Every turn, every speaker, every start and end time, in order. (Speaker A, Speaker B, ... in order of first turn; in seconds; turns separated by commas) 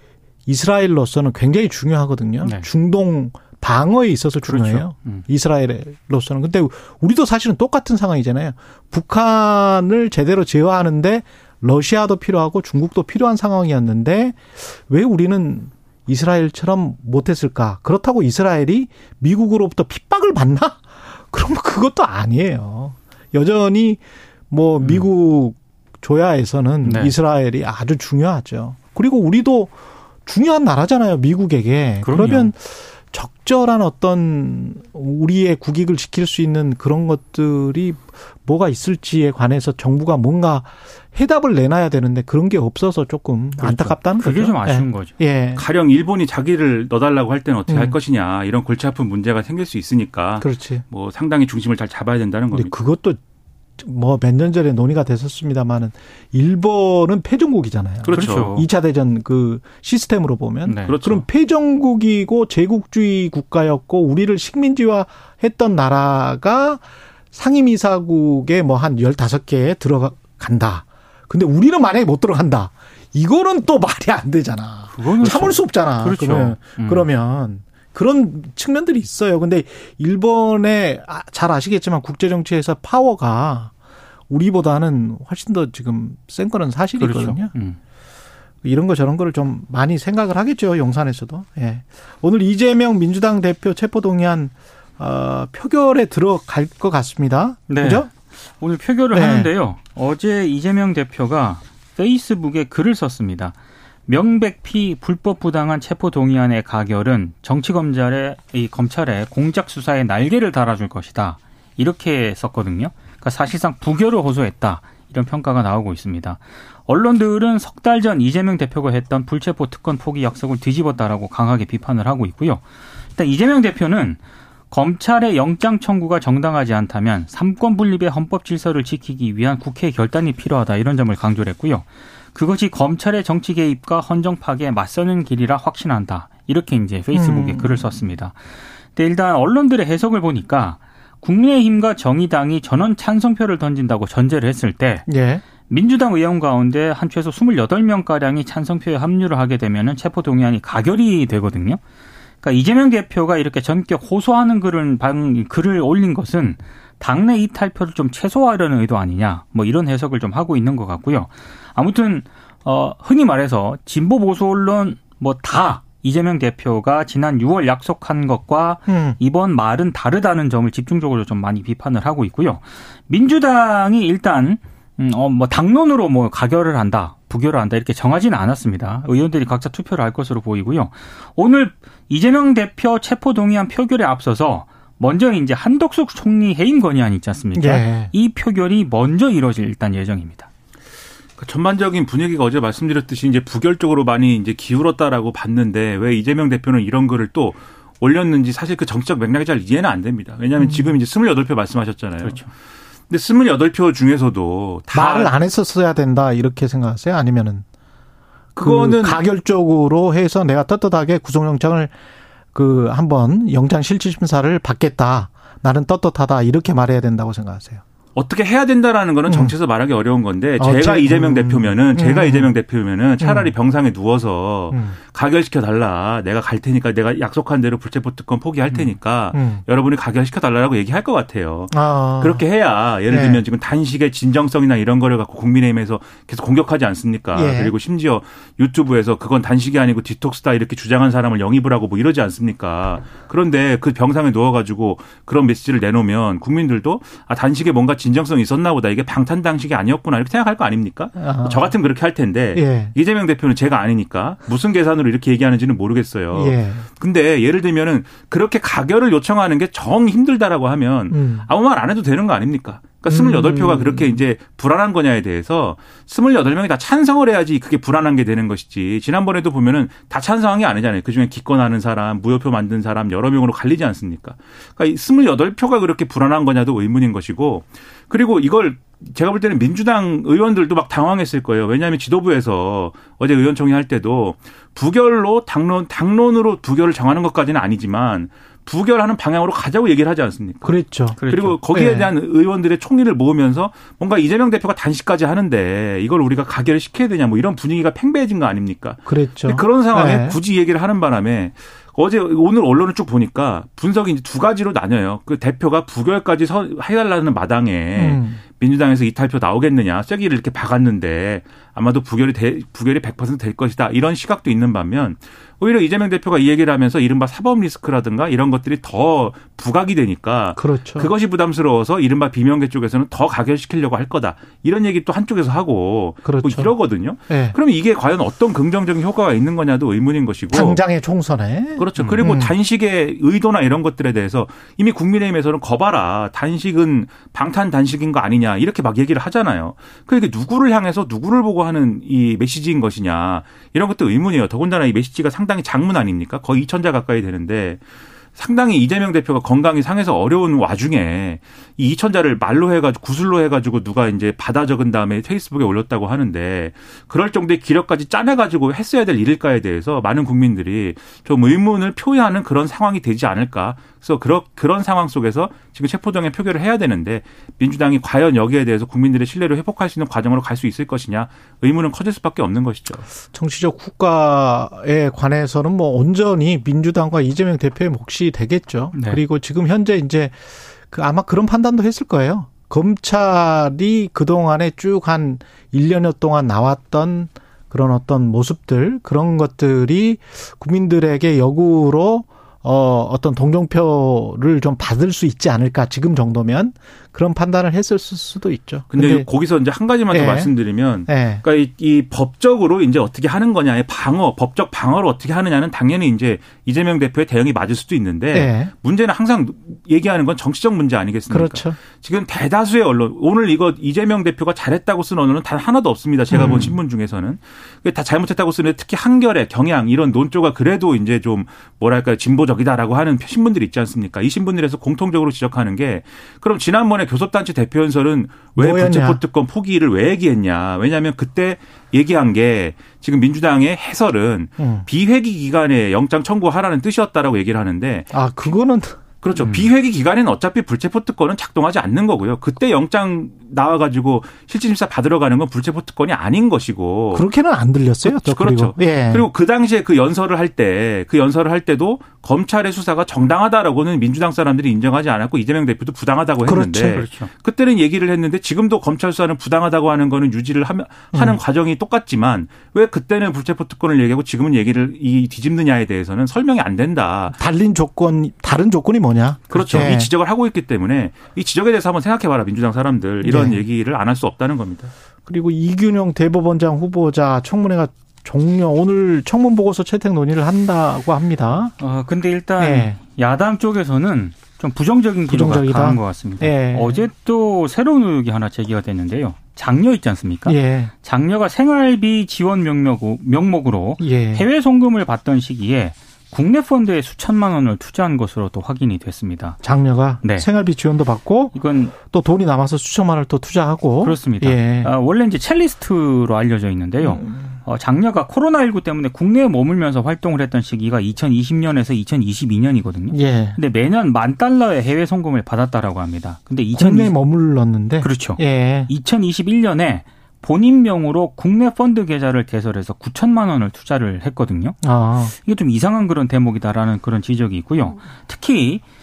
Speaker A: 0.5-29.7, Speaker B: 2.4-2.7, Speaker B: 4.4-5.2, Speaker B: 26.8-27.1, Speaker A: 30.3-45.6, Speaker B: 32.0-32.5, Speaker B: 43.6-45.1, Speaker C: 45.5-52.7, Speaker A: 47.7-48.0, Speaker A: 50.4-50.8, Speaker A: 52.5-53.2, Speaker A: 53.8-83.7, Speaker B: 58.0-58.7, Speaker C: 58.1-58.5, Speaker B: 60.7-60.9, Speaker C: 60.9-61.2, Speaker B: 74.9-77.1, Speaker A: 84.3-87.5, Speaker B: 87.0-87.8, Speaker A: 88.6-98.1, Speaker B: 97.7-103.5, Speaker A: 99.1-99.5, Speaker B: 104.1-122.6, Speaker B: 123.2-124.2, Speaker B: 124.7-138.4, Speaker A: 137.1-138.0, Speaker B: 138.9-145.1, Speaker A: 145.1-145.4, Speaker B: 145.7-151.8, Speaker B: 152.4-190.5, Speaker A: 168.9-169.2, Speaker A: 187.6-188.1, Speaker C: 191.4-202.5, Speaker A: 200.6-200.9, Speaker C: 203.1-205.3, Speaker A: 204.9-207.7, Speaker C: 208.6-209.2, Speaker A: 208.6-211.9, Speaker A: 212.5-217.8, Speaker C: 218.2-330.8, Speaker A: 219.3-219.6, Speaker A: 220.6-222.5, Speaker A: 223.2-223.5, Speaker A: 224.7-225.0, Speaker A: 229.3-229.6, Speaker A: 231.7-232.4, Speaker A: 233.1-233.4, Speaker A: 237.3-237.7, Speaker A: 251.2-251.8, Speaker A: 252.5-252.9, Speaker A: 256.3-256.9, Speaker A: 261.1-261.5, Speaker A: 263.1-264.2, Speaker A: 290.6-292.1, Speaker B: 291.2-291.6, Speaker A: 299.1-300.4, Speaker A: 307.9-308.4, Speaker A: 320.6-321.1, Speaker A: 326.2-327.6, Speaker A: 330.5-332.6, Speaker C: 331.8-347.8, Speaker C: 348.4-373.1, Speaker A: 373.3-399.3, Speaker B: 378.9-379.2, Speaker C: 398.9-438.1, Speaker A: 400.1-400.5, Speaker A: 401.1-401.4, Speaker A: 408.3-408.7, Speaker A: 411.3-411.8, Speaker A: 416.3-416.8, Speaker A: 428.6-429.2, Speaker A: 434.6-434.9, Speaker A: 438.1-439.0, Speaker C: 439.2-447.3, Speaker B: 439.4-439.7, Speaker A: 447.1-449.3, Speaker C: 448.0-467.4, Speaker A: 456.5-457.0, Speaker B: 456.9-457.3, Speaker A: 461.1-461.4, Speaker A: 467.3-470.1, Speaker C: 469.5-474.9, Speaker A: 473.2-473.6, Speaker A: 475.3-481.7, Speaker B: 481.8-499.6, Speaker A: 482.6-483.0, Speaker A: 485.3-487.0, Speaker A: 490.5-490.9, Speaker A: 494.0-494.5, Speaker A: 499.6-504.9, Speaker B: 500.2-500.5, Speaker B: 501.5-501.9, Speaker B: 504.0-517.2, Speaker A: 507.0-507.5, Speaker A: 513.1-513.6, Speaker A: 516.7-518.9, Speaker B: 518.0-524.8, Speaker A: 524.8-525.4, Speaker B: 525.4-528.8